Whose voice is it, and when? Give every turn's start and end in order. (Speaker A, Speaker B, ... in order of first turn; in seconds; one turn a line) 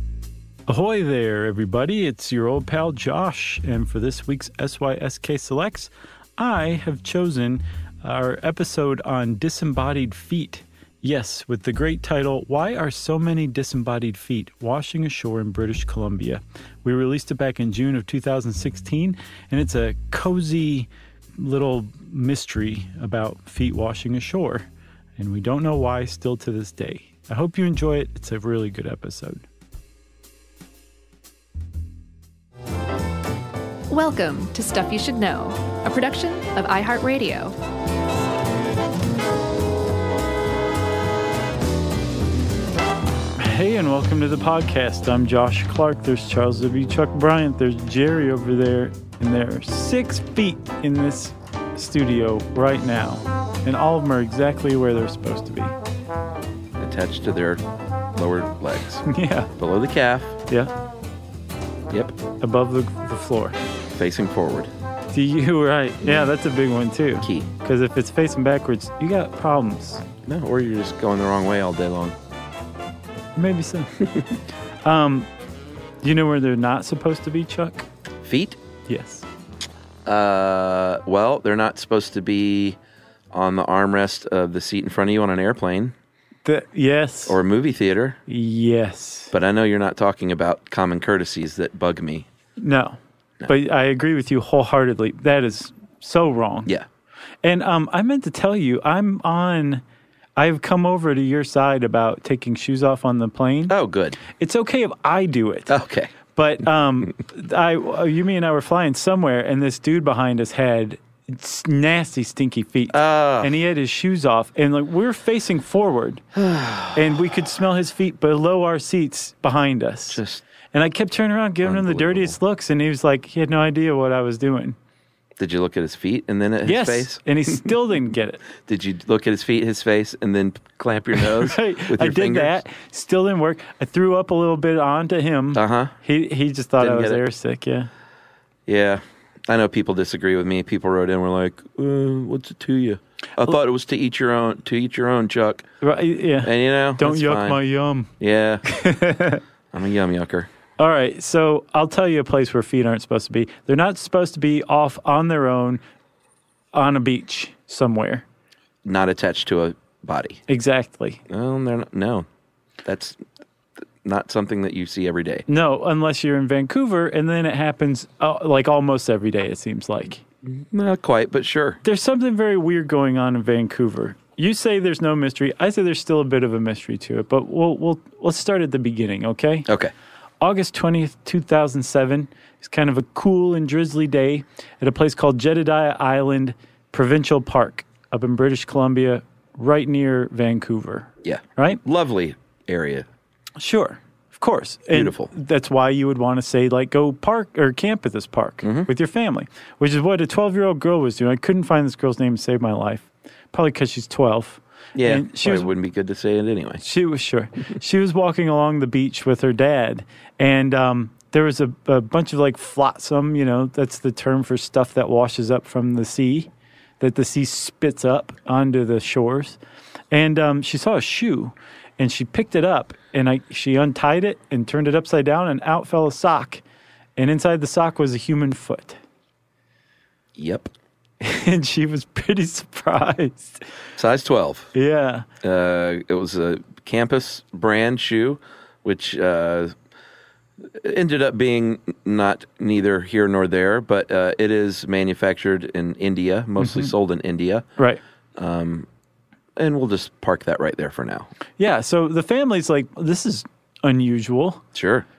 Speaker A: 0.7-29.4
Speaker B: 33.9-37.5
Speaker A: 43.4-55.8
Speaker C: 56.8-57.6
Speaker C: 58.1-60.4
Speaker A: 59.0-59.5
Speaker C: 61.9-62.1
Speaker A: 62.4-63.5
Speaker C: 64.0-64.7
Speaker A: 65.1-70.0
Speaker C: 67.2-67.5
Speaker C: 70.2-72.1
Speaker A: 73.3-74.0
Speaker A: 74.8-75.3
Speaker A: 76.0-77.9
Speaker C: 78.2-78.6
Speaker A: 78.9-79.2
Speaker C: 80.0-82.8
Speaker C: 83.3-85.9
Speaker A: 86.4-87.4
Speaker C: 87.3-88.2
Speaker A: 88.3-89.3
Speaker C: 89.3-92.2
Speaker A: 92.6-96.7
Speaker A: 97.4-99.8
Speaker A: 100.4-105.7
Speaker C: 103.7-104.2
Speaker C: 105.7-106.1
Speaker A: 106.3-116.2
Speaker C: 112.9-113.5
Speaker C: 116.3-117.0
Speaker A: 116.9-120.2
Speaker C: 120.1-120.4
Speaker A: 120.7-124.8
Speaker C: 121.6-122.3
Speaker C: 125.4-127.7
Speaker A: 126.6-128.4
Speaker C: 128.7-132.6
Speaker A: 131.2-137.9
Speaker C: 135.5-135.9
Speaker C: 136.8-137.2
Speaker C: 138.7-145.7
Speaker A: 145.8-148.1
Speaker C: 146.4-147.6
Speaker C: 148.2-148.6
Speaker A: 148.6-149.4
Speaker C: 149.7-150.5
Speaker A: 150.8-155.8
Speaker A: 156.7-158.2
Speaker C: 158.8-160.4
Speaker A: 160.5-161.2
Speaker C: 161.3-162.2
Speaker C: 162.8-163.2
Speaker C: 164.0-165.4
Speaker A: 165.5-170.2
Speaker C: 170.4-171.8
Speaker A: 171.8-179.7
Speaker C: 179.7-179.9
Speaker A: 180.4-191.8
Speaker C: 191.2-193.1
Speaker A: 193.6-205.7
Speaker C: 194.9-195.3
Speaker C: 198.6-198.9
Speaker C: 204.9-206.8
Speaker A: 206.8-219.6
Speaker A: 220.1-226.6
Speaker A: 227.2-229.0
Speaker C: 230.3-230.7
Speaker A: 231.2-233.6
Speaker C: 234.0-234.7
Speaker A: 234.7-235.2
Speaker C: 235.4-239.7
Speaker C: 240.7-247.7
Speaker A: 246.6-246.9
Speaker C: 248.4-248.9
Speaker C: 249.6-251.3
Speaker A: 251.6-254.6
Speaker C: 254.7-255.1